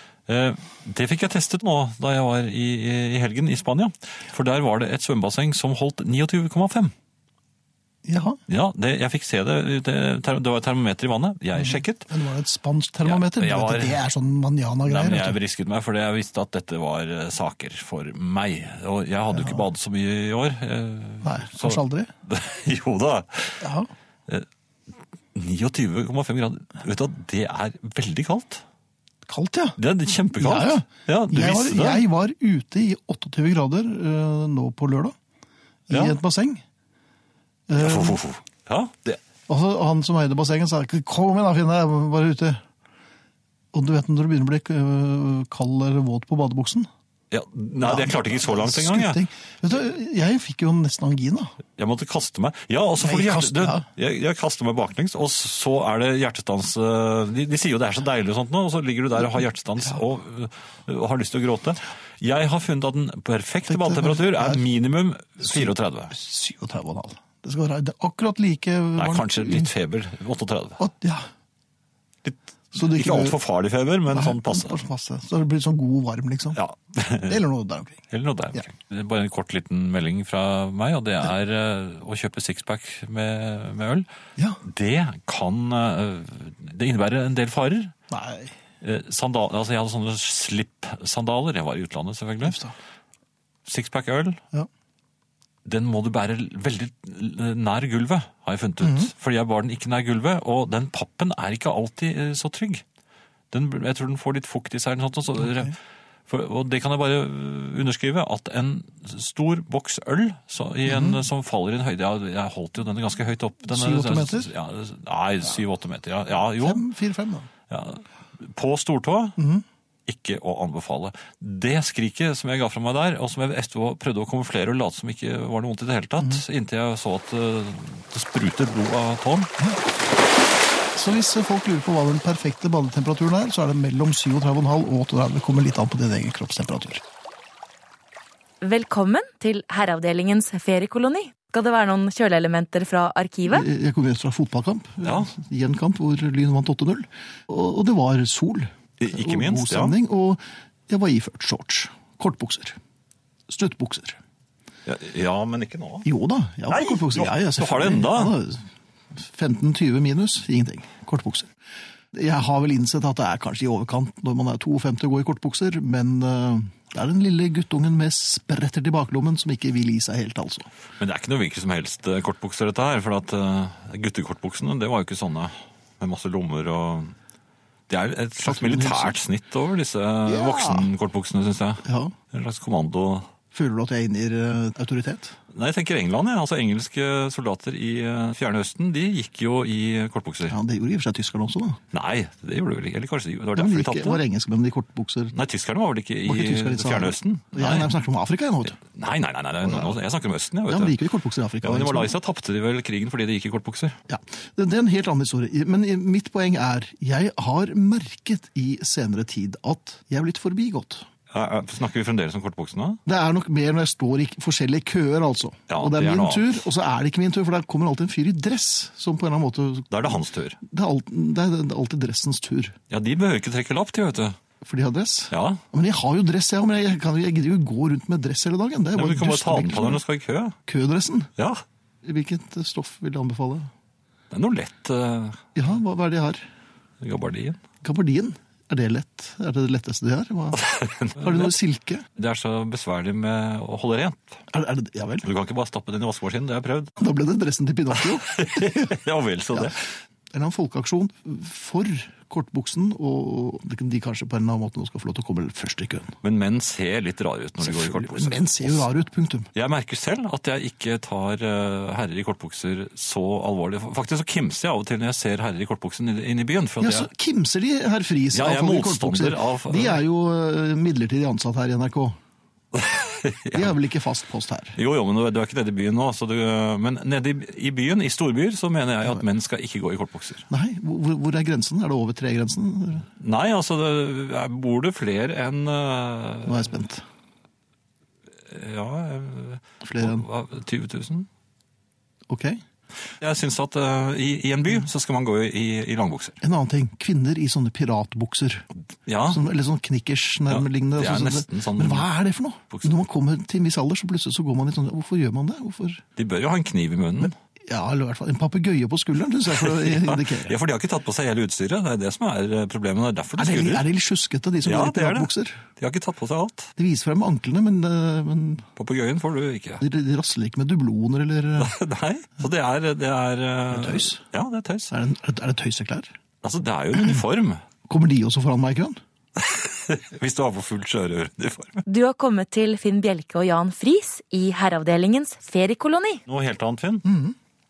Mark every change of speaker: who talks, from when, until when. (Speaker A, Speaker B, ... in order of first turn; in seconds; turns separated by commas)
Speaker A: 0.3-6.9, Speaker B: 8.0-8.4, Speaker A: 8.5-12.1, Speaker B: 11.5-15.4, Speaker A: 13.0-14.0, Speaker A: 14.8-23.6, Speaker B: 19.3-19.6, Speaker B: 21.2-22.1, Speaker B: 23.6-23.9, Speaker A: 25.3-28.6, Speaker B: 29.2-29.8, Speaker A: 29.8-32.0, Speaker B: 30.3-35.1, Speaker B: 35.9-36.6, Speaker A: 35.9-36.2, Speaker B: 37.7-38.2, Speaker A: 37.8-39.2, Speaker B: 39.5-42.6, Speaker B: 43.7-46.9, Speaker A: 47.3-49.2, Speaker B: 47.8-51.5, Speaker A: 51.8-66.1, Speaker B: 53.0-53.9, Speaker B: 63.7-64.6, Speaker B: 65.4-69.7, Speaker A: 69.0-70.8, Speaker B: 70.8-71.2, Speaker A: 72.2-74.8, Speaker B: 72.7-73.4, Speaker B: 74.1-76.6, Speaker A: 76.5-77.4, Speaker B: 77.2-78.0, Speaker A: 78.1-84.0, Speaker A: 84.6-87.9, Speaker B: 88.1-88.5, Speaker A: 88.8-92.6, Speaker B: 92.4-92.7, Speaker A: 93.6-94.4, Speaker A: 95.6-102.8, Speaker B: 98.8-99.1, Speaker A: 103.5-105.8, Speaker B: 105.4-105.7, Speaker A: 106.3-116.8, Speaker B: 110.8-111.2, Speaker B: 113.7-114.5, Speaker B: 116.6-117.5, Speaker A: 117.7-119.4, Speaker B: 119.4-119.6, Speaker A: 120.0-129.5, Speaker B: 126.2-126.4, Speaker B: 130.9-137.0, Speaker C: 138.6-143.7, Speaker B: 143.4-152.8, Speaker A: 145.0-145.3, Speaker A: 149.0-149.9, Speaker B: 153.5-154.2, Speaker A: 154.8-156.1, Speaker B: 156.0-161.5, Speaker A: 156.7-158.3, Speaker B: 162.1-170.7, Speaker A: 171.0-177.1, Speaker A: 177.9-183.3, Speaker B: 178.4-179.1, Speaker B: 180.2-180.9, Speaker B: 181.8-182.1, Speaker B: 183.5-185.3, Speaker A: 185.5-190.6, Speaker B: 190.5-191.8, Speaker A: 191.9-194.2, Speaker B: 193.5-195.3, Speaker A: 195.3-197.9, Speaker B: 196.3-198.8, Speaker A: 198.8-201.0, Speaker B: 199.6-199.9, Speaker B: 200.7-202.2, Speaker A: 201.6-203.9, Speaker B: 204.1-211.0, Speaker A: 211.3-213.0, Speaker B: 213.1-222.8, Speaker A: 215.7-216.6, Speaker A: 219.9-220.6, Speaker A: 222.9-224.4, Speaker B: 224.6-230.0, Speaker A: 225.3-225.6, Speaker A: 228.9-230.6, Speaker B: 230.7-231.3, Speaker A: 231.4-231.6, Speaker B: 232.0-233.7, Speaker A: 234.3-235.4, Speaker B: 235.5-236.4, Speaker A: 237.0-237.6, Speaker B: 237.8-240.6, Speaker A: 240.6-241.5, Speaker B: 241.2-242.0, Speaker A: 242.2-244.4, Speaker B: 244.5-245.3, Speaker A: 245.2-247.0, Speaker B: 247.0-248.9, Speaker A: 248.0-249.9, Speaker B: 249.5-249.8, Speaker B: 250.3-256.1, Speaker A: 256.2-258.9, Speaker B: 257.6-259.5, Speaker A: 259.5-267.1, Speaker B: 266.8-272.2, Speaker A: 268.3-270.0, Speaker A: 272.7-273.7, Speaker B: 273.5-274.8, Speaker A: 274.8-280.4, Speaker B: 280.5-283.1, Speaker A: 283.1-286.7, Speaker B: 286.4-287.0, Speaker A: 288.4-291.3, Speaker B: 289.8-290.2, Speaker B: 292.3-292.6, Speaker A: 293.2-296.4, Speaker B: 296.4-298.7, Speaker A: 299.1-299.4, Speaker B: 299.3-306.0, Speaker A: 300.5-302.1, Speaker A: 302.7-303.0, Speaker A: 306.1-307.3, Speaker B: 307.6-310.5, Speaker A: 309.5-313.9, Speaker B: 313.4-315.6, Speaker A: 314.6-316.7, Speaker B: 316.8-318.6, Speaker A: 318.8-319.8, Speaker B: 319.8-321.7, Speaker A: 321.6-324.9, Speaker B: 323.7-324.2, Speaker B: 324.9-326.1, Speaker A: 326.4-327.6, Speaker B: 327.9-329.0, Speaker A: 329.4-331.8, Speaker C: 331.9-336.2, Speaker A: 336.2-337.1, Speaker B: 337.0-337.3